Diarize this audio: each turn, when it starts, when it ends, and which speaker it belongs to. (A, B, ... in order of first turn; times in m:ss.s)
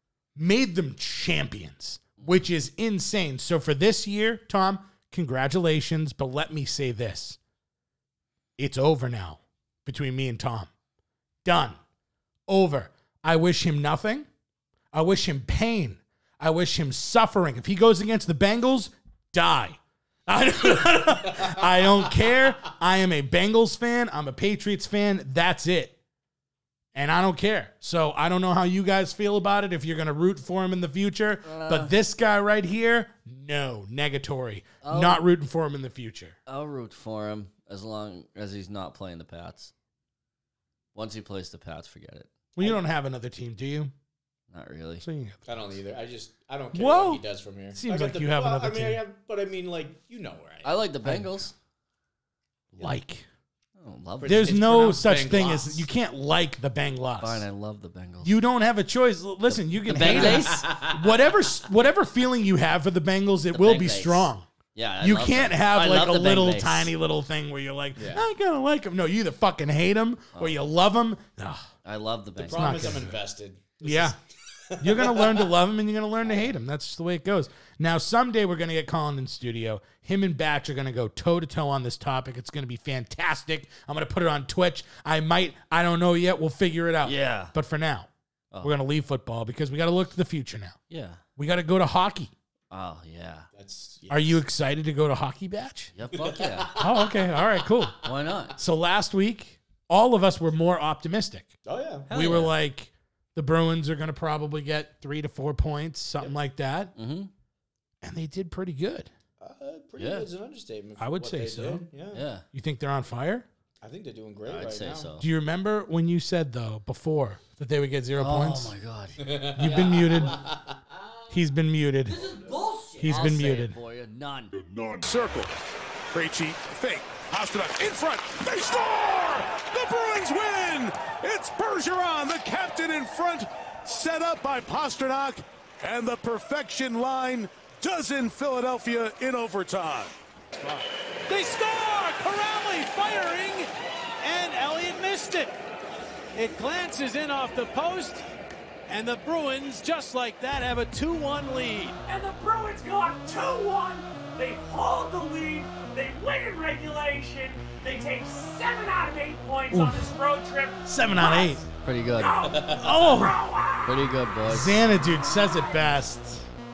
0:00.4-0:07.4 A
0:08.6-0:10.7 A
0:11.4-0:11.8 A
0:12.5-0:14.3 A
0:14.9-0:26.0 A
0:27.0-0:36.4 A
0:31.4-0:32.0 B
0:34.8-0:35.2 B
0:36.5-0:39.7 B
0:41.0-0:42.3 B
0:42.6-0:43.9 A
0:44.5-0:45.0 B
0:45.0-0:45.5 A
0:45.5-0:50.8 C
0:46.7-0:49.0 A
0:50.6-0:51.5 B
0:51.0-0:51.5 A
0:52.8-0:53.3 A
0:53.8-0:54.6 B
0:54.2-0:55.9 C
0:54.3-0:57.5 A
0:57.2-0:58.3 B
0:58.2-1:04.5 A
0:59.9-1:00.7 B
1:00.0-1:01.2 C
1:03.5-1:06.9 B
1:05.0-1:11.7 A
1:08.0-1:08.3 C
1:11.8-1:13.0 B
1:12.4-1:14.1 C
1:12.5-1:13.2 A
1:13.8-1:14.2 A
1:14.7-1:15.5 C
1:14.8-1:28.1 A
1:27.0-1:27.5 B
1:28.6-1:30.8 A
1:30.9-1:31.2 B
1:31.4-1:32.3 A
1:32.7-1:33.5 B
1:33.6-1:34.4 C
1:34.1-1:35.9 A
1:36.0-1:36.7 B
1:36.2-1:37.8 C
1:36.8-1:38.0 A
1:38.0-1:38.6 B
1:38.6-1:41.5 A
1:41.6-1:42.1 C
1:42.1-1:42.6 B
1:42.1-1:46.9 A
1:47.0-1:47.3 B
1:48.0-1:49.1 A
1:49.4-1:52.3 C
1:50.0-1:50.3 B
1:51.0-1:51.8 A
1:52.1-1:52.4 B
1:52.5-1:53.5 A
1:53.8-1:55.1 C
1:54.5-1:55.3 B
1:55.2-1:58.7 A
1:58.2-1:59.4 B
1:59.2-2:00.8 C
1:59.5-2:00.4 A
2:01.3-2:02.2 A
2:02.1-2:04.5 B
2:03.0-2:03.8 A
2:04.6-2:05.6 D
2:06.1-2:20.2 D
2:20.6-2:23.7 E
2:24.2-2:25.5 E
2:26.4-2:28.2 E
2:28.9-2:32.0 E
2:32.1-2:44.1 F
2:39.7-2:40.1 A
2:40.9-2:41.6 A
2:41.8-2:42.4 B
2:42.4-2:42.9 C
2:42.8-2:43.4 A
2:43.8-2:44.8 B
2:44.5-2:46.5 A
2:45.0-2:45.8 F